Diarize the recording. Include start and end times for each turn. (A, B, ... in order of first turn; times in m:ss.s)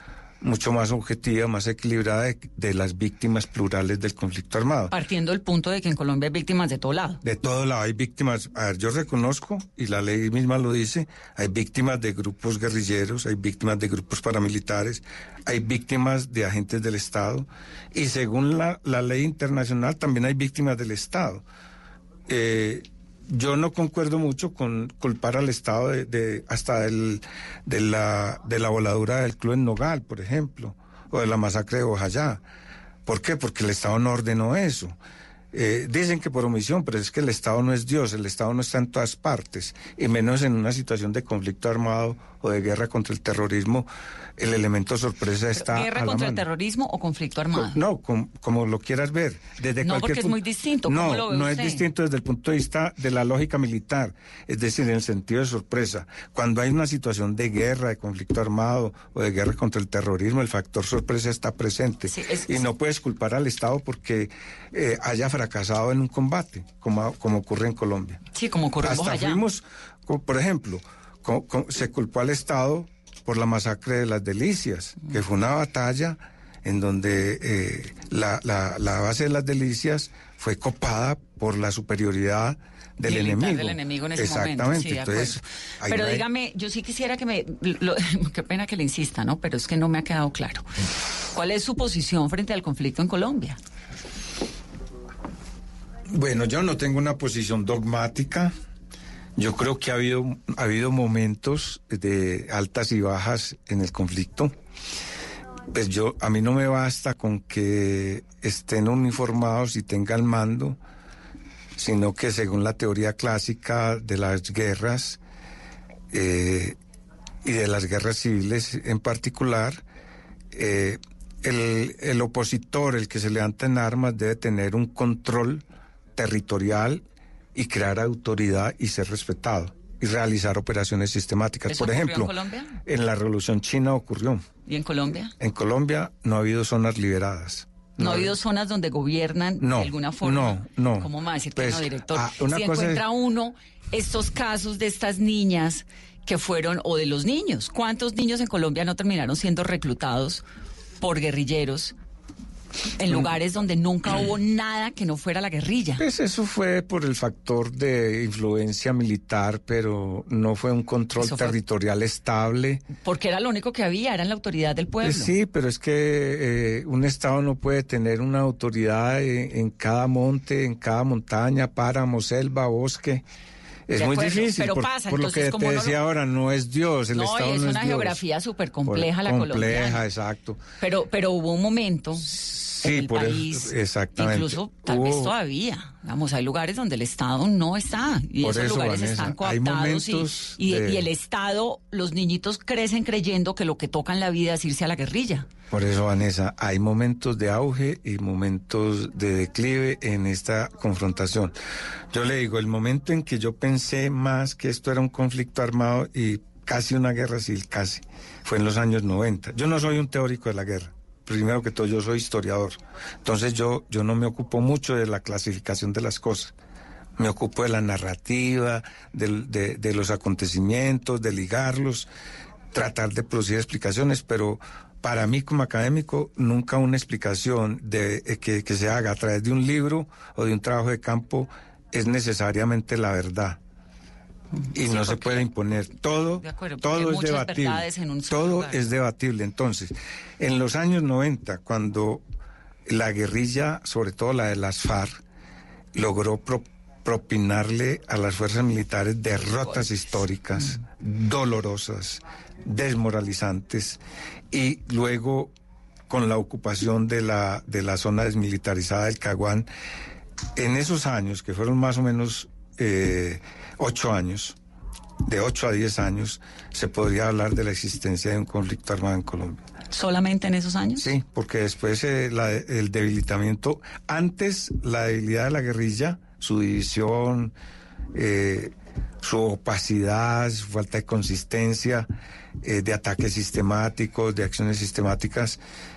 0:00.4-0:04.9 A
0:04.9-0:07.2 B
0:07.2-0:21.4 A
0:22.3-0:32.4 A
0:33.1-0:35.0 A
0:35.5-0:46.4 A
0:45.5-0:47.8 B
0:47.5-1:08.2 A
0:49.8-0:51.9 B
1:02.1-1:02.7 B
1:08.3-1:09.4 B
1:08.8-1:26.2 A
1:23.0-1:30.8 B
1:31.3-1:33.6 B
1:36.1-1:38.5 A
1:39.4-1:44.5 A
1:45.7-1:50.8 A
1:51.8-1:55.2 A
1:56.1-1:56.8 A
1:57.4-1:59.8 A
2:00.5-2:05.6 A
2:06.2-2:07.0 A
2:07.6-2:12.3 A
2:11.7-2:12.8 B
2:12.9-2:14.4 A
2:14.7-2:15.3 B
2:15.4-2:18.3 A
2:18.0-2:30.4 B
2:19.6-2:23.0 A
2:31.0-2:32.0 B
2:33.0-2:36.0 B
2:36.0-2:42.9 A
2:41.2-2:41.6 B
2:42.9-2:45.3 B
2:45.0-2:53.3 A
2:53.9-2:58.2 A
2:54.0-2:56.0 B
2:57.1-3:00.0 B
2:58.8-3:00.6 A
3:00.8-3:15.5 B
3:02.2-3:05.3 A
3:08.4-3:11.1 A
3:15.7-3:21.6 A
3:22.1-3:36.5 A
3:37.2-3:42.1 A
3:42.7-3:53.6 A
3:54.6-3:55.5 B
3:54.7-4:02.2 A
3:56.4-3:58.9 B
4:02.9-4:05.2 A
4:05.9-4:15.5 A
4:16.1-4:19.7 A
4:20.6-4:24.6 A
4:25.2-4:29.6 A
4:29.9-4:31.1 B
4:31.0-4:37.5 A
4:38.1-4:42.1 A
4:42.6-4:45.6 A